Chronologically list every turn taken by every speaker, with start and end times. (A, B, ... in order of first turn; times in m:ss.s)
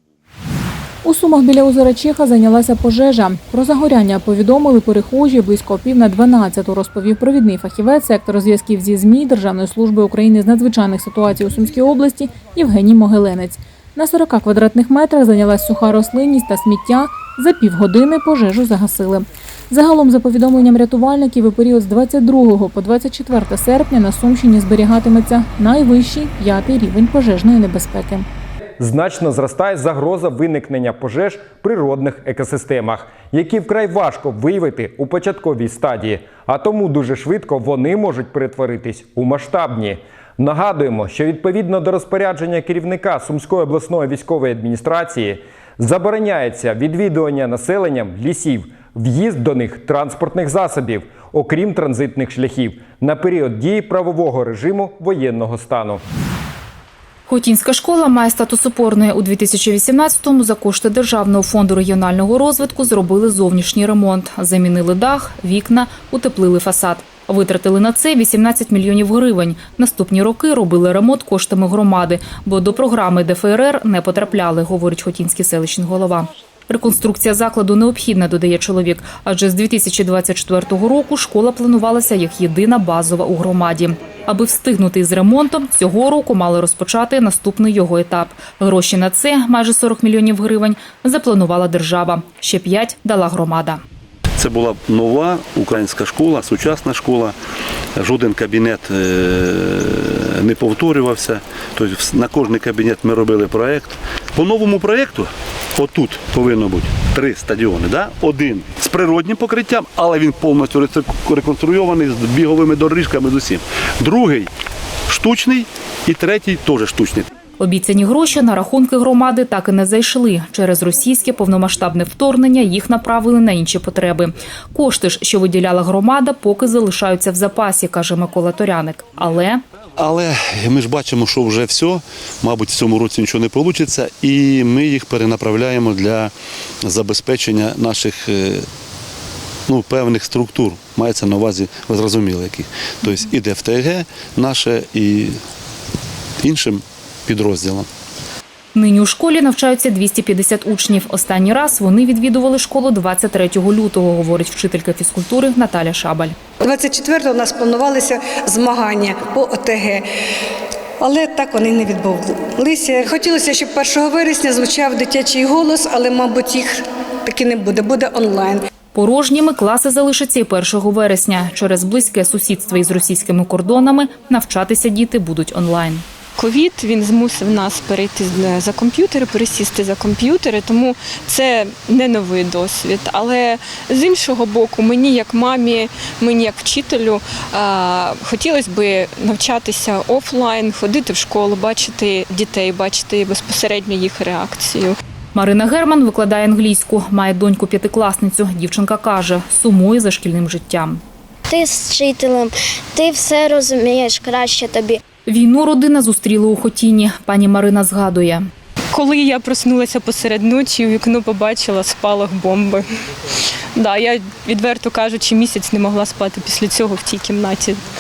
0:01.0-0:28.3 A
0:28.8-0:56.0 B
0:57.3-1:33.8 C
1:34.4-1:37.4 D
1:38.0-1:54.5 D
1:55.1-1:57.3 D
1:57.6-2:09.6 C
2:10.0-2:18.7 D
2:19.7-2:25.4 D
2:26.4-2:27.9 D
2:28.8-2:36.4 C
2:36.6-2:40.1 E
2:41.0-2:48.6 E
2:49.0-2:56.0 C
2:56.4-3:15.0 F
3:15.4-3:21.0 C
3:21.5-3:22.5 G
3:23.0-3:24.9 G
3:25.3-3:28.5 C
3:28.9-3:32.9 F
3:33.8-3:37.8 F